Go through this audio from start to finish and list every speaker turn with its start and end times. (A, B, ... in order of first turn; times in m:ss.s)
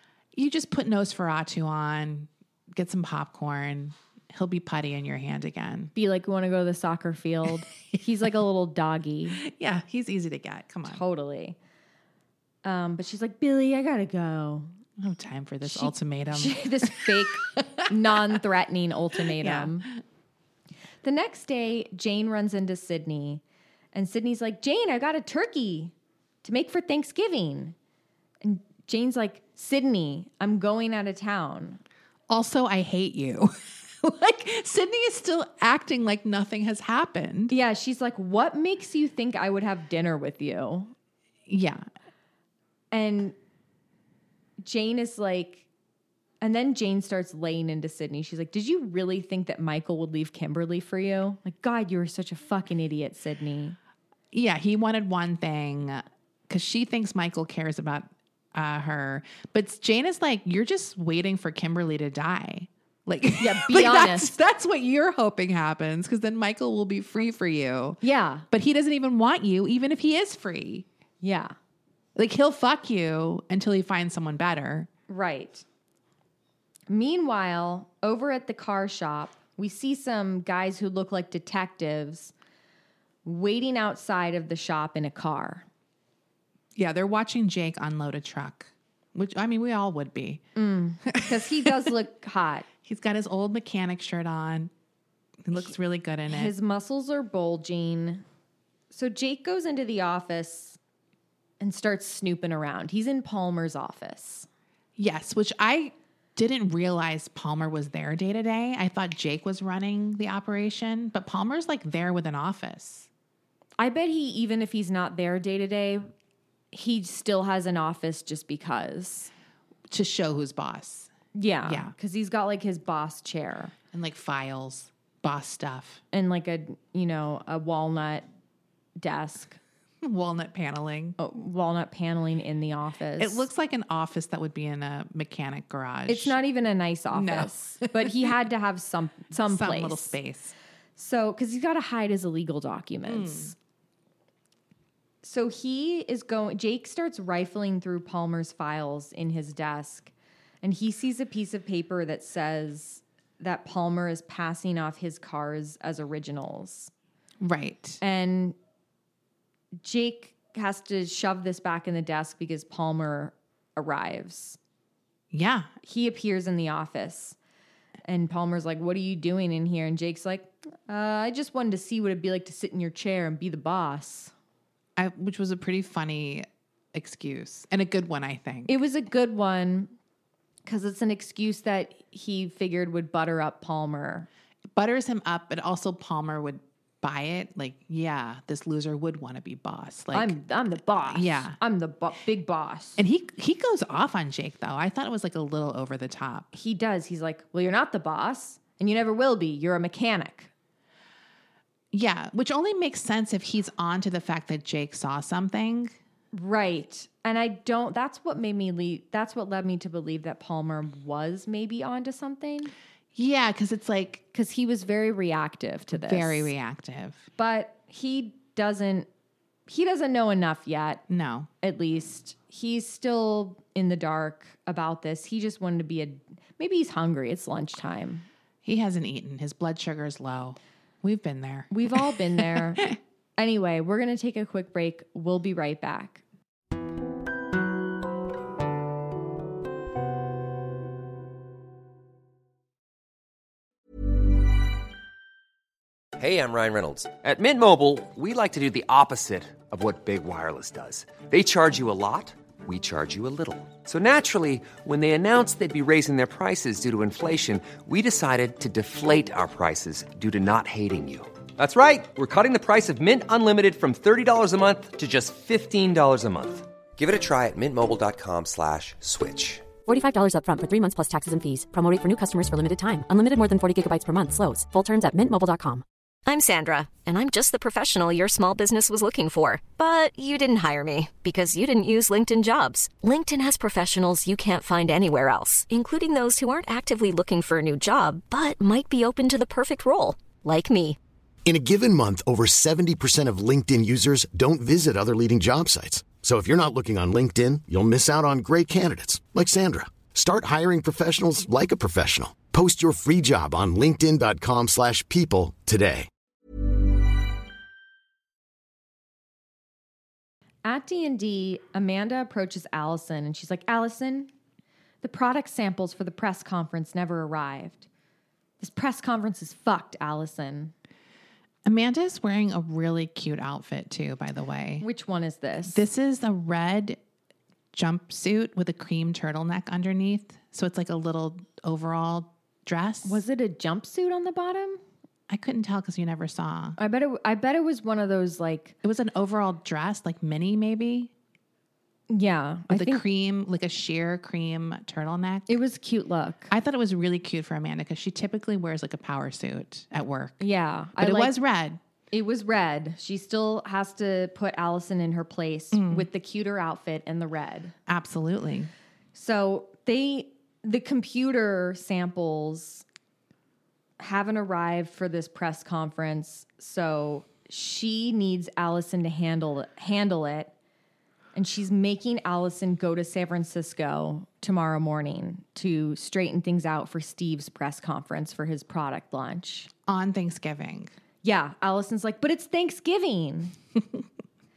0:00.3-0:05.9 A
0:05.9-0:09.4 B
0:09.4-0:11.0 A
0:10.9-0:11.6 B
0:12.6-0:14.7 B
0:15.0-0:17.9 A
0:15.6-0:19.9 B
0:19.4-0:19.9 A
0:21.0-0:23.4 B
0:23.9-0:25.9 B
0:26.4-0:27.7 B
0:28.4-0:31.8 B
0:32.3-0:37.5 A
0:37.5-0:40.9 B
0:41.5-0:41.8 A
0:42.9-0:43.3 B
0:44.6-0:45.6 B
0:46.4-0:53.8 B
0:54.3-1:10.8 A
1:03.4-1:04.3 B
1:08.0-1:08.4 B
1:11.2-1:11.5 B
1:12.2-1:14.9 A
1:15.1-1:15.6 B
1:16.9-1:22.3 B
1:23.2-1:25.6 B
1:26.7-1:30.4 A
1:30.6-1:32.6 B
1:31.1-1:31.7 A
1:32.8-1:34.7 A
1:35.4-1:36.5 A
1:36.3-1:38.2 B
1:38.9-1:40.8 B
1:41.6-1:44.5 B
1:45.0-1:53.1 A
1:53.8-1:56.1 B
1:56.7-1:59.3 B
1:59.9-2:01.1 A
2:01.3-2:03.7 B
2:01.6-2:01.9 A
2:03.9-2:06.0 A
2:06.1-2:08.2 B
2:09.0-2:09.6 B
2:10.0-2:11.2 A
2:11.2-2:13.5 B
2:13.2-2:16.4 A
2:16.1-2:20.2 B
2:17.1-2:18.4 A
2:19.3-2:20.5 A
2:21.0-2:23.5 B
2:23.0-2:23.5 A
2:25.2-2:36.9 B
2:37.4-2:38.0 A
2:38.0-2:38.6 B
2:39.8-2:44.6 B
2:45.3-2:45.7 A
2:45.8-2:47.4 B
2:48.0-2:54.3 B
2:55.0-2:58.7 A
2:58.7-2:59.9 B
3:00.6-3:04.3 B
3:04.7-3:10.4 A
3:10.1-3:13.0 B
3:11.0-3:11.6 A
3:13.0-3:16.5 A
3:16.5-3:20.5 B
3:21.9-3:26.0 A
3:26.3-3:32.7 B
3:33.1-3:34.2 A
3:34.3-3:36.5 B
3:35.9-3:37.2 A
3:37.4-3:39.1 B
3:39.7-3:41.0 B
3:41.1-3:41.5 A
3:41.6-3:48.3 B
3:48.6-3:52.9 A
3:51.7-3:56.2 B
4:06.2-4:29.7 C
4:29.8-4:35.8 D
4:36.2-4:51.0 E
4:51.4-5:06.1 F
5:10.6-5:14.3 B
5:15.0-5:17.8 B
5:18.6-5:20.7 B
5:21.6-5:24.8 A
5:24.8-5:25.8 B
5:25.7-5:27.0 A
5:27.7-5:33.2 A
5:33.0-5:34.8 B
5:35.3-5:36.8 A
5:36.8-5:38.8 B
5:38.8-5:41.1 A
5:42.1-5:43.0 B
5:42.7-5:45.6 A
5:45.5-5:46.5 B
5:46.5-5:50.4 A
5:50.4-5:51.4 B
5:51.0-5:51.8 A
5:52.1-5:57.7 B
5:55.7-5:56.1 A
5:57.9-5:58.7 A
5:59.1-6:02.8 B
6:04.0-6:10.5 B
6:11.3-6:19.7 B
6:19.9-6:20.9 A
6:21.2-6:23.5 B